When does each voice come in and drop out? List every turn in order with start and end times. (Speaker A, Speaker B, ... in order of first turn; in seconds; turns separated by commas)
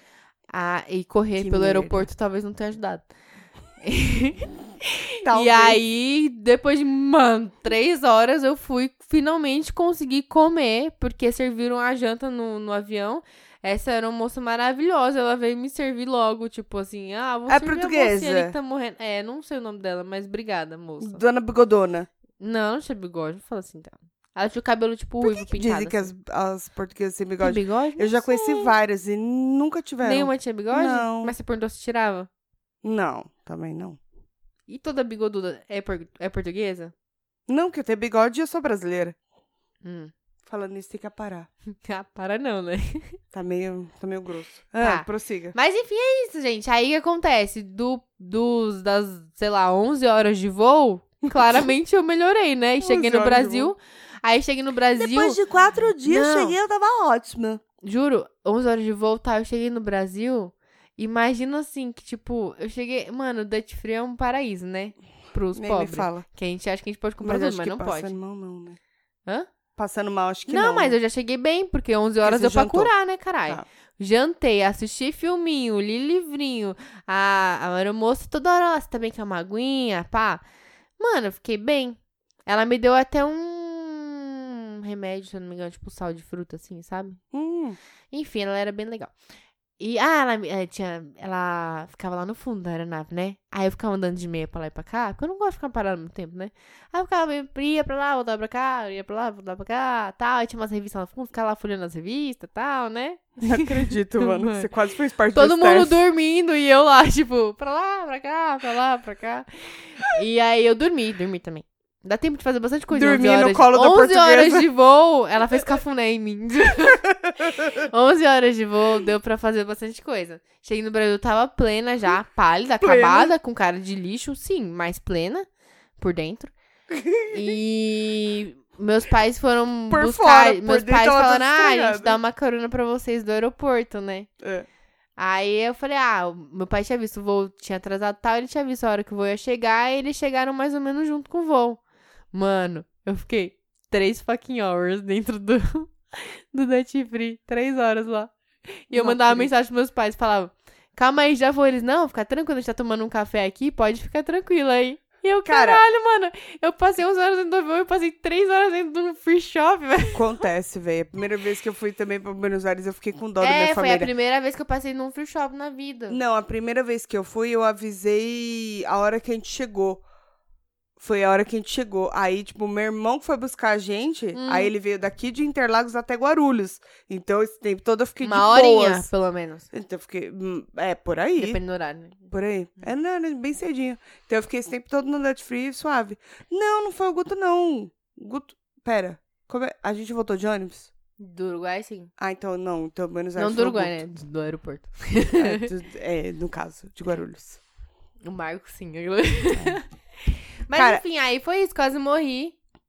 Speaker A: 0.5-3.1, Speaker B: 1.4-2.1, Speaker A: 3.8-21.2, Speaker B: 5.2-5.8, Speaker B: 17.5-18.5, Speaker B: 21.0-22.1, Speaker A: 22.4-26.1, Speaker B: 25.2-31.3, Speaker A: 27.4-28.7, Speaker A: 30.0-32.3, Speaker B: 32.8-34.0, Speaker A: 34.7-36.9, Speaker B: 37.5-39.1, Speaker A: 39.8-40.1, Speaker B: 40.5-41.5, Speaker A: 41.9-43.1, Speaker B: 43.3-45.5, Speaker A: 44.8-55.4, Speaker B: 51.3-51.6, Speaker B: 52.8-53.7, Speaker B: 55.0-57.6, Speaker A: 56.0-56.5, Speaker A: 57.8-68.1, Speaker B: 65.5-66.2, Speaker B: 67.2-68.8, Speaker B: 69.8-71.0, Speaker A: 70.5-80.4, Speaker B: 72.2-72.9, Speaker A: 81.0-87.2, Speaker B: 87.3-87.8, Speaker A: 88.1-89.1, Speaker A: 89.8-104.7, Speaker B: 103.4-106.0, Speaker A: 105.3-125.5, Speaker B: 112.9-114.7, Speaker B: 117.3-117.8, Speaker B: 122.8-123.3, Speaker A: 126.0-126.5, Speaker B: 126.9-127.4, Speaker A: 127.3-134.3, Speaker B: 129.9-132.2, Speaker B: 134.4-134.7, Speaker A: 135.2-141.8, Speaker A: 142.3-160.2, Speaker B: 148.9-149.5, Speaker B: 155.4-155.8, Speaker B: 160.1-164.1, Speaker A: 163.4-166.2, Speaker B: 166.1-170.0, Speaker B: 171.0-179.1, Speaker A: 174.3-174.7, Speaker A: 178.2-179.7, Speaker B: 179.7-181.6, Speaker A: 181.4-182.3, Speaker B: 182.3-190.9, Speaker A: 191.2-192.1, Speaker B: 192.2-194.0, Speaker A: 193.4-195.7, Speaker B: 195.4-197.6, Speaker A: 198.2-199.8, Speaker A: 200.6-202.6, Speaker B: 200.7-201.0